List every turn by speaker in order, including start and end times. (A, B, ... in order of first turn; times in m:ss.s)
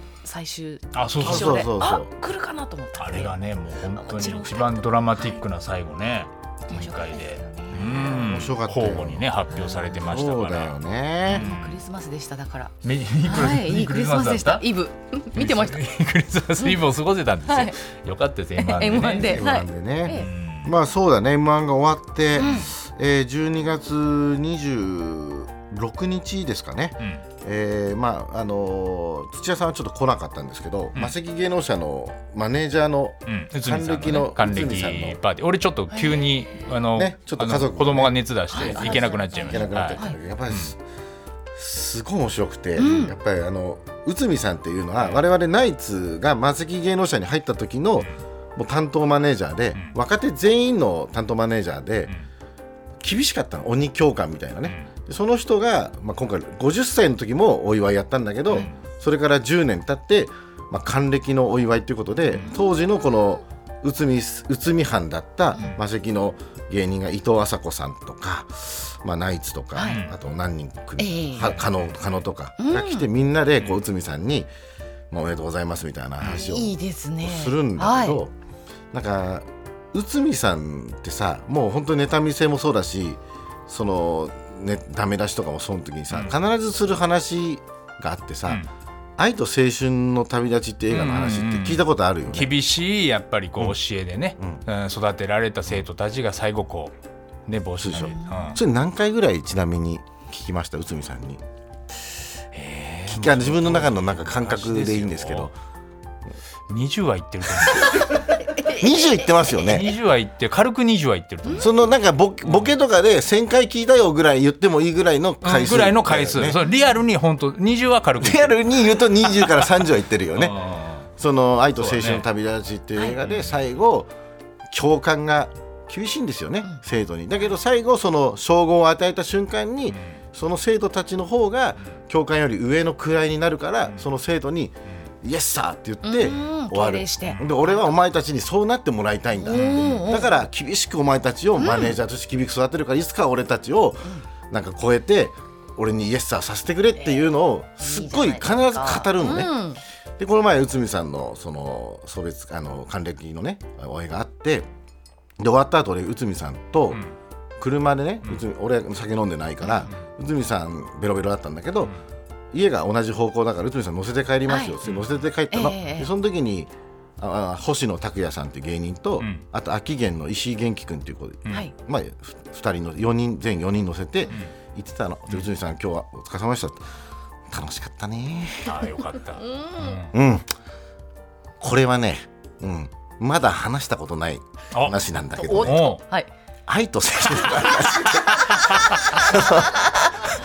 0:00.2-0:03.4 A
0:00.9-0:01.7 B
0:01.2-0:02.1 C
0:03.0-0:10.8 B
0:04.0-0:05.4 A
0:06.7-0:08.2 A
0:07.7-0:09.3 C
0:09.9-0:11.5 C
0:11.3-0:11.8 B
0:11.3-0:12.7 A
0:12.8-0:14.6 B
0:13.2-0:15.8 A
0:15.3-0:19.5 B
0:17.5-0:17.8 A
0:18.6-0:20.3 A
0:19.0-0:35.2 C
0:20.1-0:20.7 B
0:22.4-0:22.7 A
0:33.3-0:40.7 B
0:36.0-0:36.2 A
0:36.9-0:40.8 C
0:38.5-0:40.2 A
0:41.6-0:52.2 C
0:42.8-0:43.2 A
0:45.0-0:45.2 B
0:53.0-1:14.5 C
0:54.6-0:54.9 B
0:58.5-0:58.8 B
1:02.4-1:02.8 A
1:09.8-1:10.0 A
1:09.8-1:10.1 B
1:11.0-1:11.6 A
1:11.6-1:11.9 B
1:12.6-1:13.1 A
1:15.1-1:18.3 C
1:16.2-1:16.5 B
1:16.3-1:18.2 A
1:18.9-1:28.7 C
1:29.2-1:32.6 C
1:30.9-1:36.9 B
1:37.5-1:38.6 B
1:37.8-1:41.4 C
1:38.0-1:38.6 A
1:42.5-1:45.5 B
1:43.1-1:45.5 C
1:46.7-1:48.1 B
1:48.6-1:49.9 C
1:49.6-1:51.7 B
1:51.6-1:56.6 C
1:55.4-1:58.6 B
1:58.2-2:00.6 C
2:00.4-2:01.1 B
2:01.2-2:04.1 C
2:01.8-2:02.2 B
2:03.2-2:03.6 B
2:04.7-2:29.7 C
2:09.9-2:10.2 B
2:16.0-2:18.0 A
2:19.4-2:20.3 A
2:19.5-2:20.2 B
2:21.6-2:22.0 A
2:27.8-2:29.8 A
2:30.2-2:34.7 C
2:35.4-2:37.0 C
2:37.6-2:41.9 C
2:39.6-2:39.9 A
2:42.5-2:56.8 C
2:44.5-2:44.7 A
2:44.8-2:45.1 B
2:45.5-2:46.1 A
2:49.2-2:49.4 B
2:57.5-2:58.8 C
2:58.6-3:00.1 B
2:59.4-3:00.0 A
3:00.1-3:00.5 C
3:01.6-3:06.0 C
3:04.7-3:05.0 B
3:05.4-3:06.3 A
3:05.6-3:06.0 B
3:06.7-3:09.9 C